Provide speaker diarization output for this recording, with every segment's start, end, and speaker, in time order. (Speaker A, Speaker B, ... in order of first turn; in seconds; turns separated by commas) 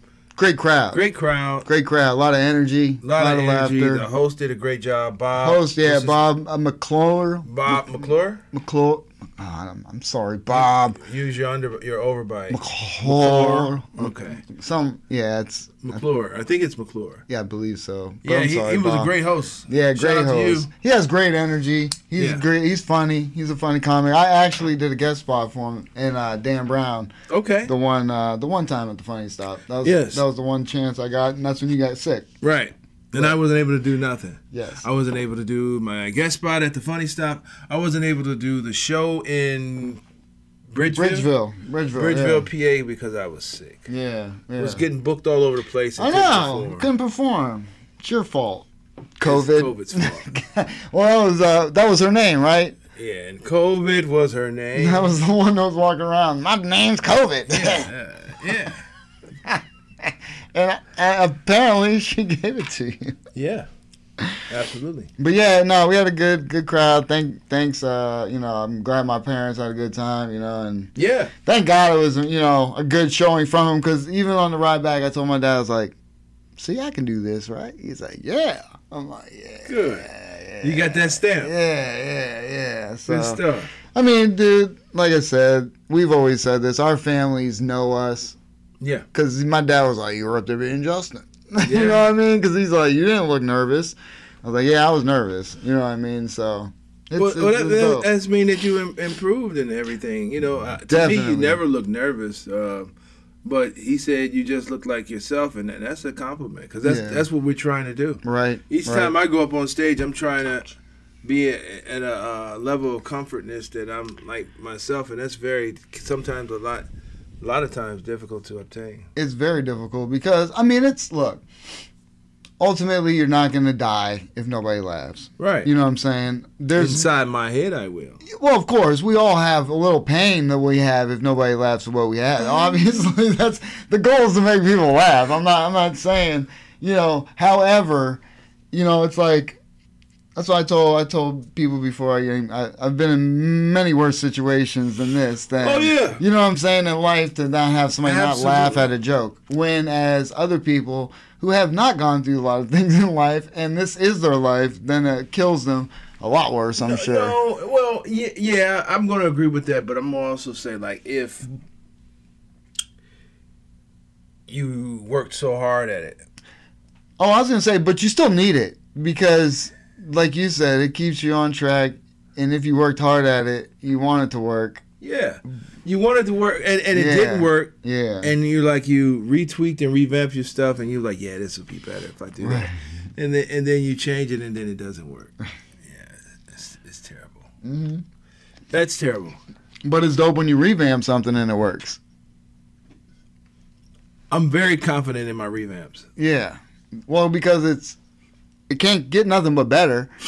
Speaker A: 0.4-1.0, Speaker B: 0.9-1.7, Speaker A: 1.6-4.1, Speaker B: 3.0-6.3, Speaker A: 5.4-11.0, Speaker B: 7.5-8.4, Speaker B: 10.5-14.4, Speaker A: 12.5-16.0, Speaker B: 15.8-17.2, Speaker A: 17.3-19.1, Speaker B: 18.2-20.7, Speaker A: 19.7-27.1, Speaker B: 22.2-22.4, Speaker B: 27.3-27.7, Speaker A: 27.7-32.3, Speaker B: 29.8-30.2, Speaker B: 32.4-40.0, Speaker A: 34.5-34.9, Speaker B: 40.7-41.3, Speaker A: 40.8-42.5, Speaker B: 41.9-43.9, Speaker A: 43.9-44.8, Speaker B: 44.6-46.9, Speaker A: 46.0-48.7, Speaker A: 49.2-52.8, Speaker B: 49.2-50.3, Speaker B: 53.0-55.2, Speaker A: 54.8-57.9, Speaker B: 57.5-58.9, Speaker A: 59.5-63.2, Speaker B: 63.4-63.7, Speaker B: 64.5-65.1, Speaker A: 65.2-76.0, Speaker B: 71.0-71.3, Speaker A: 76.6-88.4, Speaker B: 79.7-80.1, Speaker B: 80.6-81.5, Speaker B: 83.1-83.7, Speaker B: 88.8-89.1, Speaker A: 89.1-98.1, Speaker B: 91.6-92.1, Speaker B: 97.2-102.9, Speaker A: 100.9-101.6, Speaker B: 103.4-110.7, Speaker A: 106.8-107.3, Speaker A: 108.2-109.1, Speaker B: 111.2-116.9, Speaker B: 117.4-119.1, Speaker A: 119.2-121.5, Speaker A: 122.6-127.1, Speaker B: 125.4-125.7, Speaker B: 126.7-128.2, Speaker A: 128.2-139.6, Speaker A: 140.4-157.3, Speaker B: 145.6-146.2, Speaker B: 148.0-148.9, Speaker B: 156.8-161.5, Speaker B: 164.5-166.2, Speaker A: 167.2-174.8, Speaker B: 175.0-187.5, Speaker A: 176.9-178.3, Speaker A: 182.4-182.8, Speaker A: 187.6-188.0, Speaker B: 188.7-189.4, Speaker A: 189.8-192.0, Speaker B: 194.3-196.1, Speaker A: 196.2-198.0, Speaker A: 198.7-200.1